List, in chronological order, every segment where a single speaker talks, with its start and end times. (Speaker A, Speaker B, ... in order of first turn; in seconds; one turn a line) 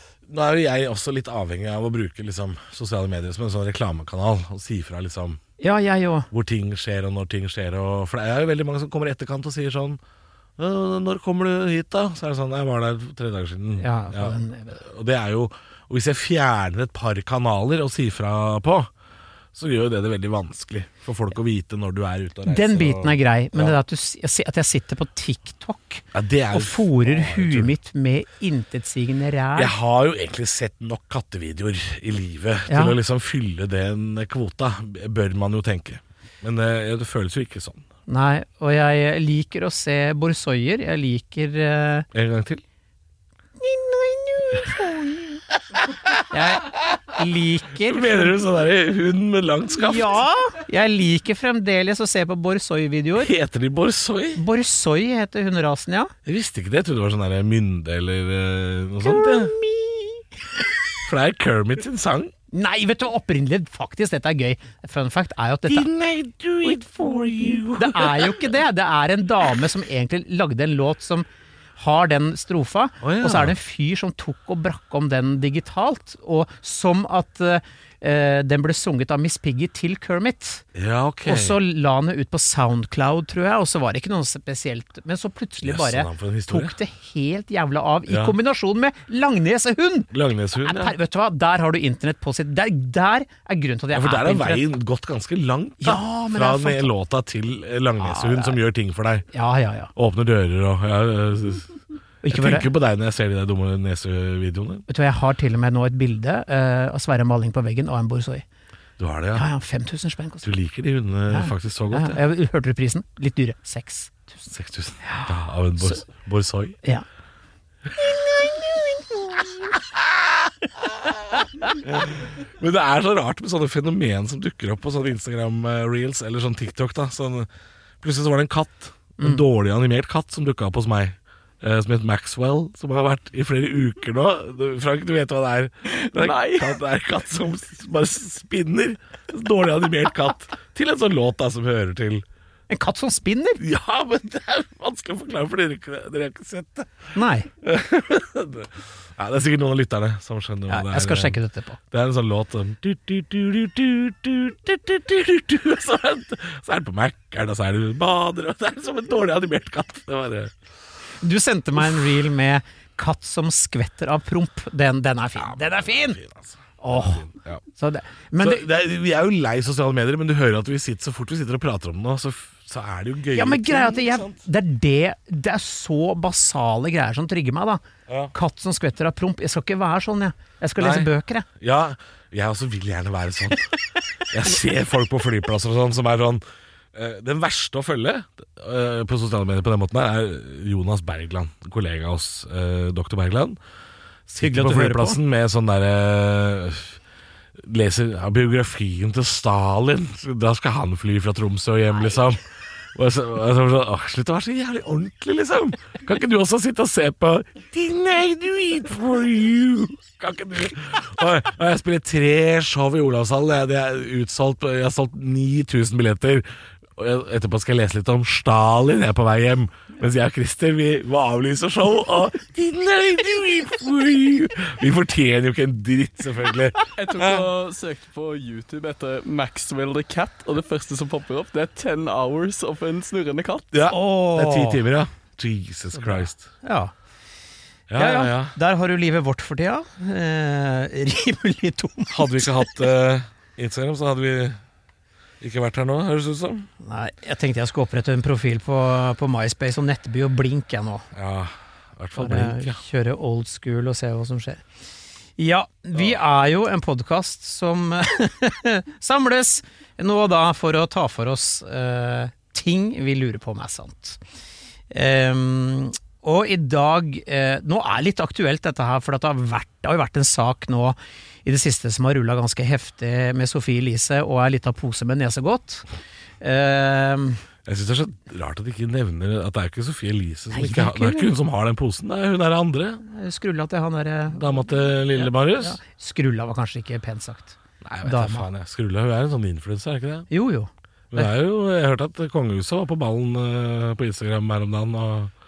Speaker A: 0.2-5.4
Speaker B: 5.6-6.3
Speaker A: 6.3-10.0
Speaker A: 10.6-18.9
Speaker B: 13.8-14.8
Speaker A: 19.5-23.7
Speaker B: 22.5-29.7
Speaker A: 26.1-27.7
Speaker A: 29.6-37.9
Speaker B: 32.7-33.0
Speaker B: 38.1-42.0
Speaker A: 42.1-42.6
Speaker B: 43.6-45.4
Speaker B: 46.3-48.4
Speaker A: 47.8-50.2
Speaker B: 49.8-53.3
Speaker A: 53.2-54.4
Speaker B: 54.4-56.1
Speaker A: 56.2-59.5
Speaker B: 59.0-60.8
Speaker A: 61.0-62.3
Speaker B: 62.5-65.9
Speaker A: 65.7-68.5
Speaker B: 67.7-71.2
Speaker B: 71.8-80.6
Speaker A: 73.0-73.5
Speaker A: 80.7-81.6
Speaker B: 81.3-90.1
Speaker A: 85.6-86.7
Speaker A: 88.1-88.3
Speaker A: 90.1-90.9
Speaker B: 90.6-94.6
Speaker A: 93.9-99.2
Speaker B: 95.8-96.9
Speaker B: 98.0-98.6
Speaker B: 99.3-99.9
Speaker A: 99.9-101.7
Speaker B: 102.2-102.7
Speaker A: 102.3-104.8
Speaker B: 104.9-108.4
Speaker A: 109.0-109.5
Speaker B: 109.3-110.5
Speaker A: 110.4-112.2
Speaker B: 111.3-114.5
Speaker A: 114.5-116.8
Speaker B: 115.0-116.0
Speaker B: 118.0-119.5
Speaker A: 119.7-121.2
Speaker A: 121.8-127.5
Speaker A: 128.0-142.2
Speaker C: 136.0-136.7
Speaker B: 142.7-143.6
Speaker A: 143.6-147.1
Speaker B: 147.1-147.5
Speaker A: 147.6-151.4
Speaker B: 150.7-151.8
Speaker A: 151.9-160.5
Speaker B: 161.2-166.2
Speaker A: 165.4-167.6
Speaker B: 166.8-168.7
Speaker A: 168.4-174.4
Speaker B: 173.3-181.5
Speaker A: 178.1-178.3
Speaker A: 180.8-183.7
Speaker A: 184.3-186.4
Speaker A: 186.9-193.6
Speaker A: 194.3-197.0
Speaker B: 194.4-195.2
Speaker A: 197.6-202.4
Speaker A: 202.9-216.4
Speaker A: 217.0-227.5
Speaker C: 226.9-233.7
Speaker A: 233.7-236.5
Speaker B: 233.9-234.8
Speaker B: 235.9-236.9
Speaker A: 237.9-238.5
Speaker B: 237.9-242.7
Speaker A: 242.1-244.6
Speaker A: 245.4-246.7
Speaker B: 246.8-251.1
Speaker A: 251.1-252.8
Speaker B: 252.1-254.6
Speaker B: 255.4-264.2
Speaker B: 264.9-275.9
Speaker B: 276.4-277.4
Speaker A: 277.6-283.0
Speaker B: 280.5-281.3
Speaker B: 283.0-284.5
Speaker A: 284.3-285.8
Speaker B: 285.1-288.5
Speaker A: 287.8-290.3
Speaker B: 290.3-291.3
Speaker A: 291.1-295.3